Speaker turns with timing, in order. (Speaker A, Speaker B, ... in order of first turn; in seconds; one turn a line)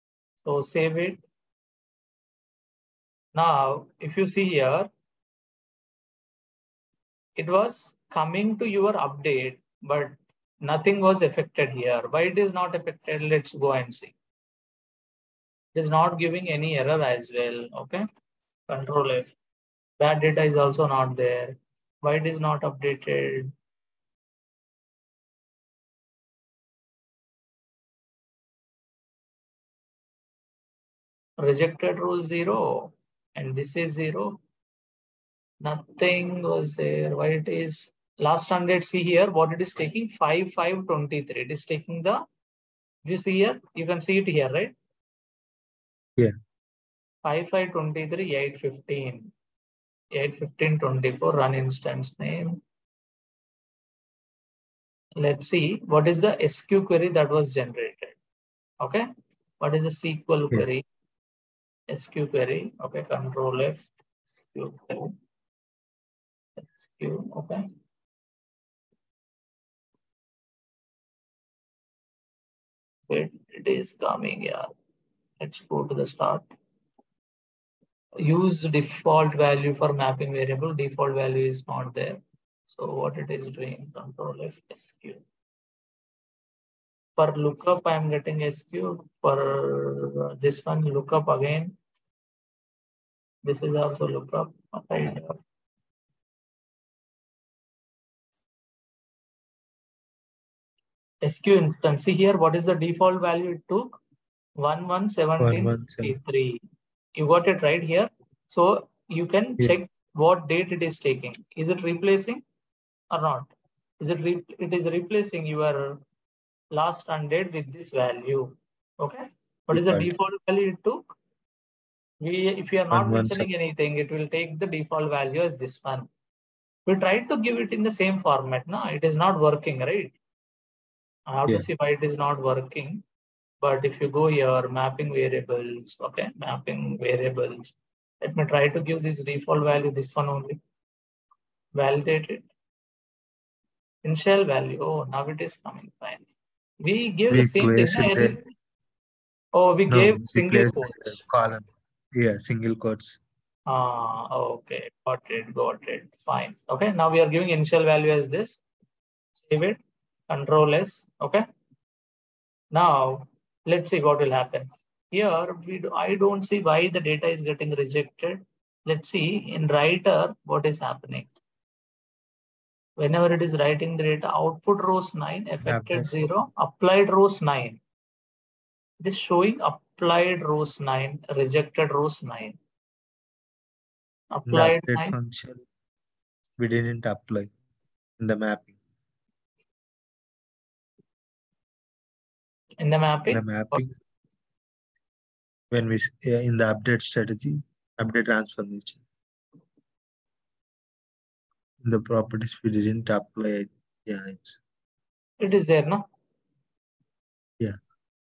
Speaker A: 0.4-1.2
Speaker A: 3.4-4.9
Speaker A: 7.4-14.1
Speaker A: 15.8-18.0
Speaker A: 18.7-19.4
Speaker A: 20.0-23.5
Speaker A: 31.4-34.4
Speaker A: 35.6-42.2
Speaker A: 43.0-44.8
Speaker A: 47.2-49.3
Speaker A: 50.1-52.6
Speaker A: 55.2-58.2
Speaker A: 58.8-59.1
Speaker A: 59.6-60.9
Speaker A: 61.9-63.9
Speaker A: 64.5-65.2
Speaker A: 66.6-67.7
Speaker A: 73.1-74.7
Speaker A: 75.4-76.5
Speaker A: 78.2-85.2
Speaker A: 87.2-91.8
Speaker A: 93.4-95.4
Speaker A: 101.2-104.0
Speaker A: 104.6-106.6
Speaker B: 105.4-106.2
Speaker A: 107.2-112.4
Speaker A: 113.1-116.0
Speaker A: 116.7-121.1
Speaker B: 119.7-120.1
Speaker A: 122.2-126.1
Speaker B: 122.9-123.5
Speaker A: 126.9-130.1
Speaker A: 131.3-133.0
Speaker A: 133.6-140.6
Speaker A: 141.8-142.5
Speaker A: 144.0-146.2
Speaker A: 146.8-148.5
Speaker B: 147.3-148.4
Speaker A: 149.5-151.2
Speaker B: 149.9-153.2
Speaker A: 153.7-158.6
Speaker A: 159.4-161.4
Speaker A: 162.7-171.3
Speaker A: 173.0-177.8
Speaker B: 175.6-176.1
Speaker A: 179.0-182.6
Speaker A: 184.3-185.1
Speaker B: 184.5-185.6
Speaker B: 186.6-187.5
Speaker B: 188.2-188.8
Speaker A: 192.8-193.8
Speaker B: 193.3-193.9
Speaker B: 195.7-199.0
Speaker B: 201.8-204.6
Speaker A: 205.4-206.0